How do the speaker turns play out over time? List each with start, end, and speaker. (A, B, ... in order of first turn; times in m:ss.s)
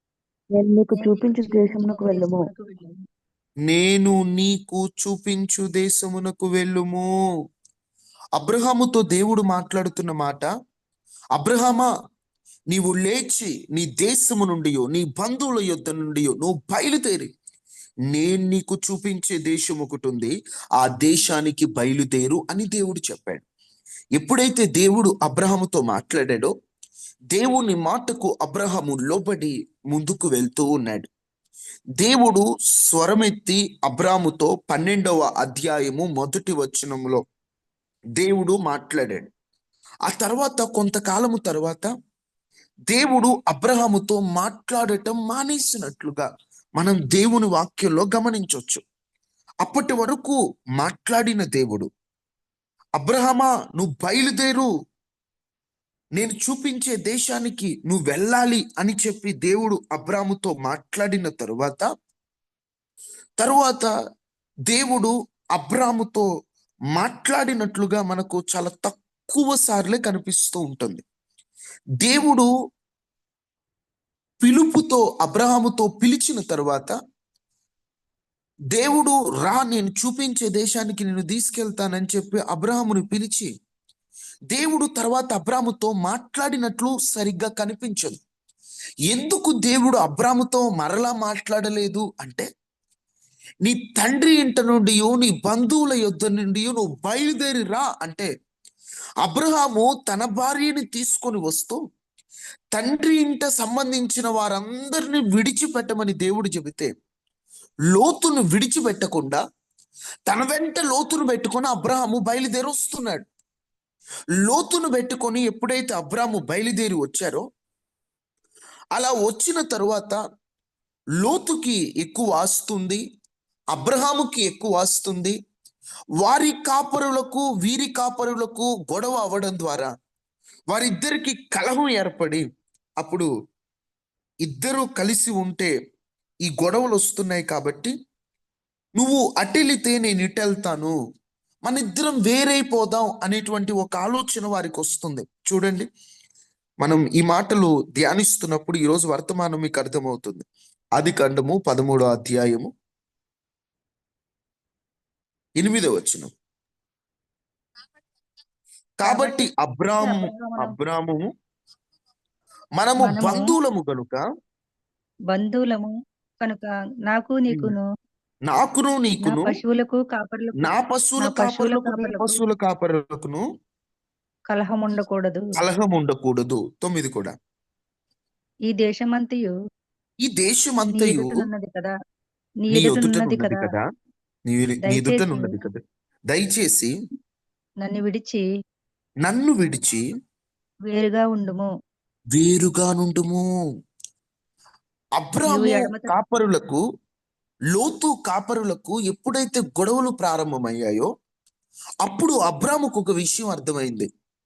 0:00.5-0:02.4 A
0:00.9-0:02.9 B
0:03.7-0:07.0 C
0:08.4-0:10.5 C
0:11.4-0:11.9 C
0:12.7-0:17.3 C
0:18.1-0:23.4 C
0:24.2-0:26.5 C
0:27.3-0:31.1 C
0:32.0-0:37.2 C
0:38.2-0:39.3 C
0:40.1-0:41.9 C
0:42.9-0:46.3 C
0:46.8-0:48.8 C
0:49.6-0:51.9 C
0:53.0-0:54.7 C
0:56.2-1:01.8 C
1:03.4-1:03.9 C
1:04.7-1:06.2 C
1:07.0-1:11.0 C
1:12.0-1:12.5 C
1:14.4-1:16.9 C
1:18.7-1:23.5 C
1:24.5-1:28.2 C
1:29.1-1:32.4 C
1:33.6-1:38.3 C
1:39.2-1:41.8 C
1:42.7-1:46.9 C
1:47.9-1:49.4 C
1:50.3-1:53.2 C
1:54.4-1:57.4 C
1:58.9-2:00.2 C
2:01.2-2:03.0 C
2:03.7-2:05.4 C
2:06.2-2:09.9 C
2:10.7-2:12.4 C
2:13.0-2:13.3 C
2:14.4-2:15.7 C
2:16.5-2:17.9 C
2:19.0-2:20.9 C
2:21.6-2:25.9 C
2:26.8-2:30.4 C
2:31.0-2:32.7 C
2:35.6-2:36.3 C
2:39.0-2:41.3 C
2:39.1-2:39.4 B
2:40.0-2:40.7 B
2:42.8-2:44.2 C
2:43.0-2:43.5 B
2:45.3-2:47.8 B
2:48.5-2:49.6 C
2:49.2-2:50.7 B
2:50.6-2:53.4 C
2:51.2-2:52.4 B
2:54.5-2:55.5 B
2:55.6-2:57.3 C
2:58.7-2:59.5 B
3:00.2-3:01.5 C
3:01.0-3:01.9 B
3:02.7-3:03.8 C
3:02.7-3:03.7 B
3:04.5-3:05.8 C
3:04.9-3:05.6 B
3:06.3-3:06.9 C
3:07.8-3:08.4 B
3:09.2-3:10.0 C
3:10.9-3:11.7 B
3:12.3-3:13.4 C
3:15.2-3:16.8 C
3:15.5-3:16.1 B
3:17.7-3:21.1 C
3:22.0-3:24.1 C